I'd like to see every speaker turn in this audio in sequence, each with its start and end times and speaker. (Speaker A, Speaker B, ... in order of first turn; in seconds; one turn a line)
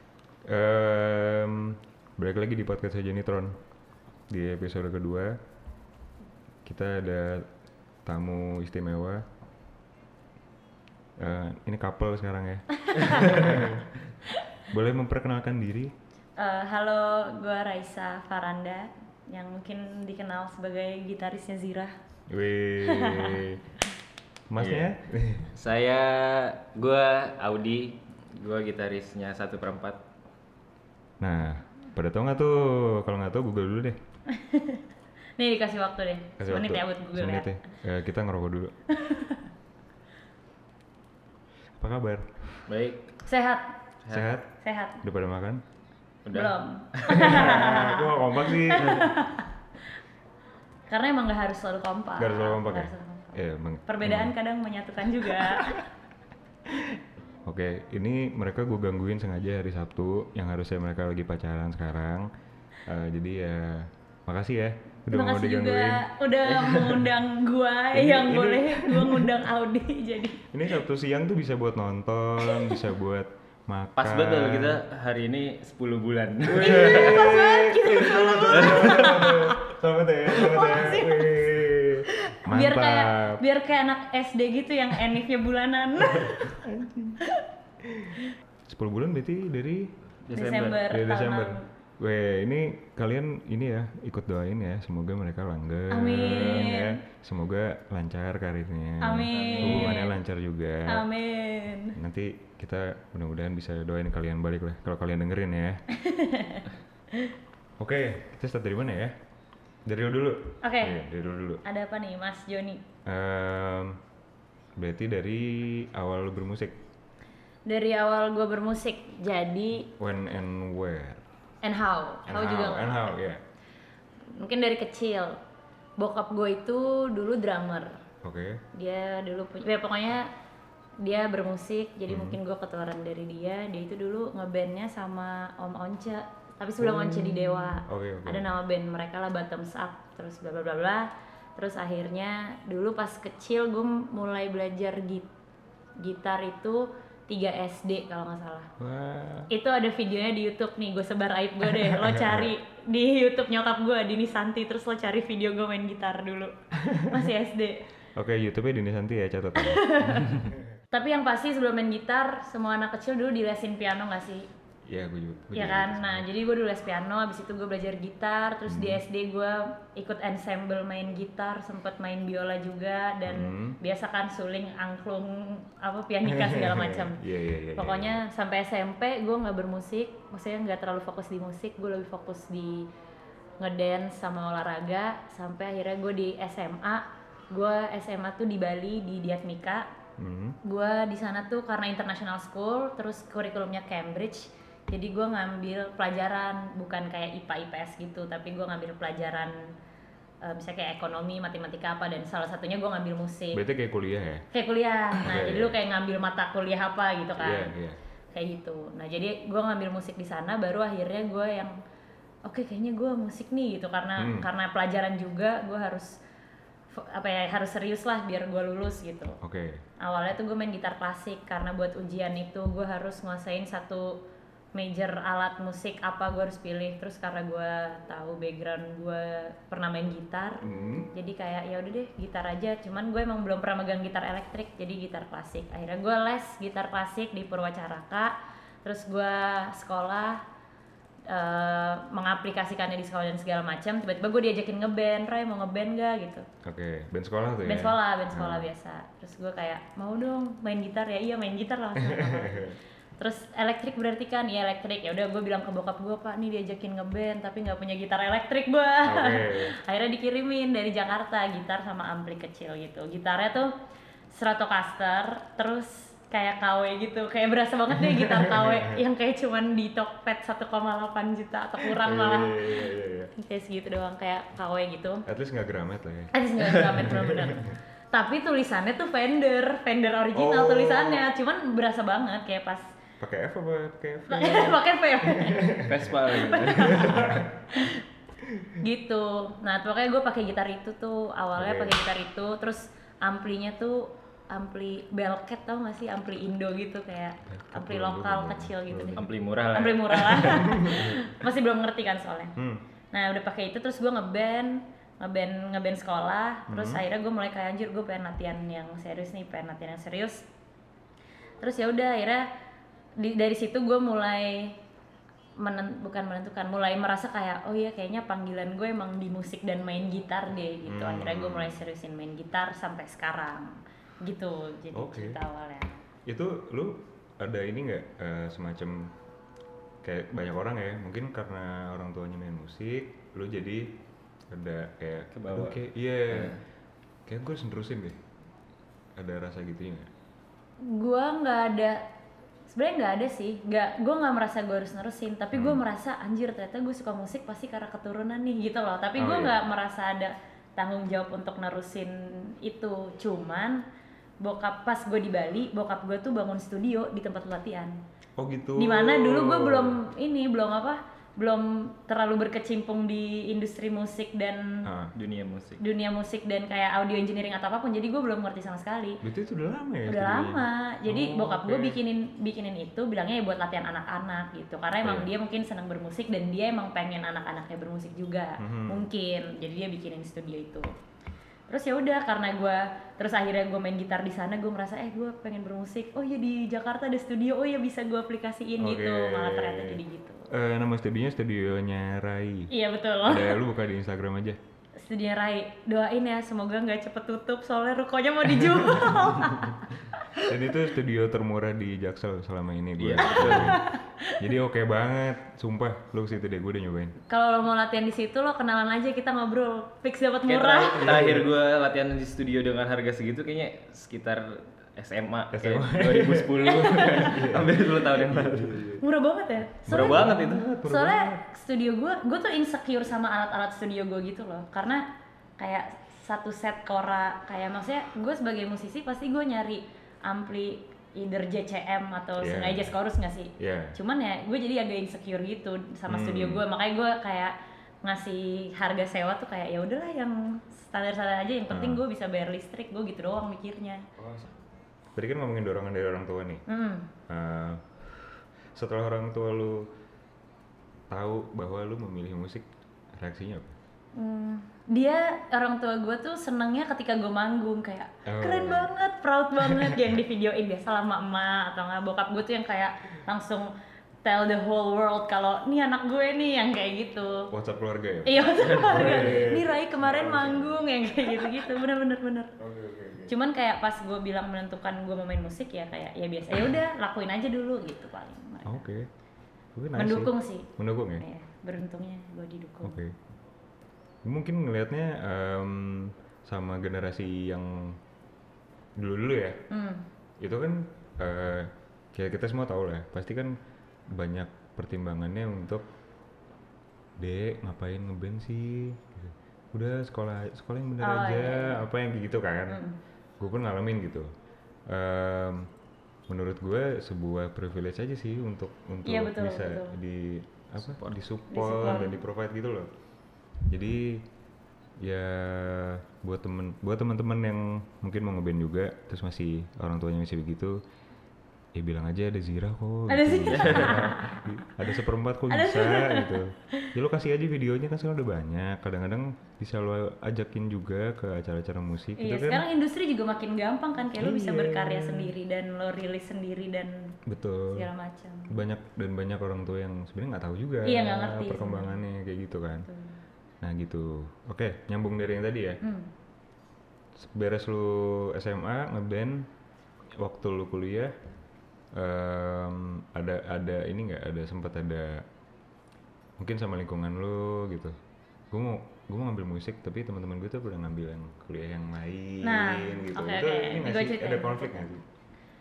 Speaker A: 0.4-3.6
Speaker A: 4.3-5.4
Speaker A: 6.6-7.5
Speaker A: 8.0-9.2
Speaker A: 11.2-13.9
Speaker B: 12.8-13.5
Speaker A: 14.7-15.9
Speaker B: 16.4-21.9
Speaker A: 22.3-23.6
Speaker B: 22.8-23.4
Speaker A: 24.5-25.5
Speaker C: 24.6-24.9
Speaker C: 25.5-30.0
Speaker A: 31.2-34.0
Speaker B: 34.3-34.8
Speaker B: 35.4-37.5
Speaker A: 36.4-38.7
Speaker B: 38.9-39.5
Speaker A: 41.8-42.7
Speaker C: 42.7-43.1
Speaker B: 43.2-43.7
Speaker A: 44.1-44.5
Speaker B: 44.6-45.0
Speaker A: 45.0-45.6
Speaker C: 46.2-47.4
Speaker B: 46.3-49.5
Speaker A: 47.1-49.1
Speaker B: 50.9-55.8
Speaker A: 52.2-54.3
Speaker A: 55.4-55.8
Speaker A: 56.7-62.3
Speaker A: 62.9-67.0
Speaker B: 65.1-70.4
Speaker A: 67.9-69.3
Speaker A: 70.5-74.8
Speaker B: 72.4-72.8
Speaker C: 74.0-77.3
Speaker A: 76.5-83.4
Speaker B: 76.6-79.6
Speaker C: 78.6-79.0
Speaker B: 80.3-81.5
Speaker B: 82.1-86.6
Speaker A: 86.0-87.2
Speaker A: 88.7-89.9
Speaker C: 90.3-90.8
Speaker B: 90.3-91.7
Speaker A: 90.9-101.1
Speaker B: 95.9-97.0
Speaker B: 99.0-100.2
Speaker C: 99.3-100.0
Speaker B: 100.9-102.0
Speaker A: 102.0-105.8
Speaker B: 105.9-107.3
Speaker A: 107.8-109.2
Speaker A: 109.8-111.6
Speaker B: 110.6-111.0
Speaker B: 111.6-112.8
Speaker A: 113.0-114.0
Speaker A: 114.8-116.8
Speaker B: 117.7-119.9
Speaker A: 120.0-121.2
Speaker B: 121.6-123.1
Speaker A: 122.2-123.4
Speaker B: 124.3-125.4
Speaker B: 126.0-128.0
Speaker A: 128.2-128.6
Speaker B: 128.7-130.3
Speaker B: 131.0-145.3
Speaker A: 132.1-132.4
Speaker A: 136.8-138.5
Speaker B: 146.0-148.7
Speaker A: 148.8-149.5
Speaker B: 149.5-156.5
Speaker A: 151.7-152.5
Speaker A: 156.7-157.3
Speaker B: 157.0-157.8
Speaker A: 158.2-160.7
Speaker B: 159.6-160.4
Speaker B: 160.9-164.5
Speaker A: 164.8-166.2
Speaker B: 165.5-177.2
Speaker A: 168.7-169.0
Speaker A: 173.2-173.8
Speaker A: 176.2-178.2
Speaker B: 177.7-182.9
Speaker B: 183.6-189.9
Speaker A: 190.2-190.6
Speaker B: 190.6-199.7
Speaker B: 200.4-203.6
Speaker A: 203.5-204.4
Speaker B: 204.5-207.7
Speaker A: 205.1-205.8
Speaker A: 207.4-208.0
Speaker B: 208.3-211.7
Speaker B: 212.4-216.2
Speaker A: 214.2-214.5
Speaker B: 216.9-219.4
Speaker A: 219.4-219.8
Speaker B: 220.0-224.2
Speaker B: 224.7-240.4
Speaker A: 230.6-231.1
Speaker B: 241.3-246.5
Speaker A: 246.6-248.7
Speaker B: 247.6-263.7
Speaker A: 251.9-252.8
Speaker A: 259.0-259.7
Speaker B: 264.3-275.2
Speaker A: 267.9-269.0
Speaker A: 271.8-273.3
Speaker A: 275.2-277.7
Speaker B: 276.3-282.9
Speaker A: 280.3-281.2
Speaker A: 283.2-286.1
Speaker B: 284.3-288.0
Speaker C: 285.9-287.3
Speaker A: 286.7-287.8
Speaker A: 288.4-288.8
Speaker B: 288.8-302.6
Speaker A: 291.6-292.0
Speaker A: 297.4-299.3
Speaker C: 299.1-300.7
Speaker A: 300.3-301.4
Speaker A: 302.6-302.8
Speaker B: 303.1-310.4
Speaker A: 306.7-307.0
Speaker B: 311.6-312.5
Speaker B: 313.2-314.8
Speaker B: 315.6-326.0
Speaker A: 320.9-321.8
Speaker A: 324.9-325.4
Speaker A: 326.2-329.1
Speaker A: 330.0-334.0
Speaker A: 334.5-336.6
Speaker C: 335.3-336.6
Speaker A: 337.2-338.2
Speaker A: 339.1-340.1
Speaker B: 340.8-342.0
Speaker B: 342.7-353.8
Speaker A: 345.5-345.8
Speaker A: 349.2-349.6
Speaker B: 354.4-358.0
Speaker A: 358.4-360.0
Speaker B: 358.8-364.8
Speaker A: 364.8-365.1
Speaker C: 365.1-365.8
Speaker B: 365.8-369.2
Speaker A: 369.2-372.0
Speaker B: 370.1-380.9
Speaker A: 375.0-375.3
Speaker A: 378.6-379.1
Speaker B: 381.7-390.5
Speaker A: 388.8-392.7
Speaker B: 392.7-393.6
Speaker A: 393.2-394.6
Speaker B: 394.9-400.5
Speaker A: 398.7-399.7
Speaker A: 400.4-407.2
Speaker C: 403.0-403.8
Speaker B: 403.2-404.4
Speaker B: 407.3-411.2
Speaker C: 410.4-418.8
Speaker A: 411.0-411.5
Speaker A: 415.5-419.0
Speaker B: 416.6-417.4
Speaker B: 419.0-425.1
Speaker A: 419.9-421.4
Speaker C: 419.9-420.6
Speaker B: 425.6-444.1
Speaker A: 432.4-432.9
Speaker A: 433.6-433.9
Speaker A: 436.1-436.6
Speaker A: 441.7-442.0
Speaker A: 444.2-444.5
Speaker A: 445.1-446.6
Speaker B: 446.7-447.1
Speaker A: 447.3-449.9
Speaker A: 451.1-453.8
Speaker B: 454.1-463.7
Speaker A: 458.2-458.9
Speaker A: 459.6-460.2
Speaker B: 464.2-467.5
Speaker A: 467.5-471.6
Speaker B: 468.2-472.5
Speaker A: 472.6-473.3
Speaker B: 473.2-478.9
Speaker A: 478.6-479.1
Speaker A: 479.7-481.2
Speaker B: 479.9-483.0
Speaker A: 482.8-483.1
Speaker A: 484.2-488.0
Speaker A: 489.0-489.6
Speaker B: 489.7-490.0
Speaker A: 490.4-493.6
Speaker A: 494.1-495.9
Speaker A: 497.2-502.8
Speaker B: 501.0-501.8
Speaker B: 502.7-502.9
Speaker A: 503.4-504.3
Speaker A: 504.9-505.7
Speaker A: 506.3-512.9
Speaker B: 509.1-509.9
Speaker B: 511.5-512.2
Speaker A: 513.7-514.2
Speaker A: 515.0-520.8
Speaker A: 521.7-532.6
Speaker B: 523.1-524.4
Speaker C: 523.5-524.1
Speaker B: 525.5-526.9
Speaker B: 532.2-537.2
Speaker A: 534.2-535.3
Speaker A: 537.3-537.9
Speaker B: 537.7-538.6
Speaker A: 538.5-542.9
Speaker B: 540.8-542.0
Speaker B: 542.9-543.1
Speaker A: 543.6-545.8
Speaker B: 545.8-546.1
Speaker A: 547.1-549.5
Speaker A: 550.2-551.1
Speaker A: 551.9-555.2
Speaker A: 556.4-558.0
Speaker A: 558.5-565.0
Speaker B: 562.4-564.9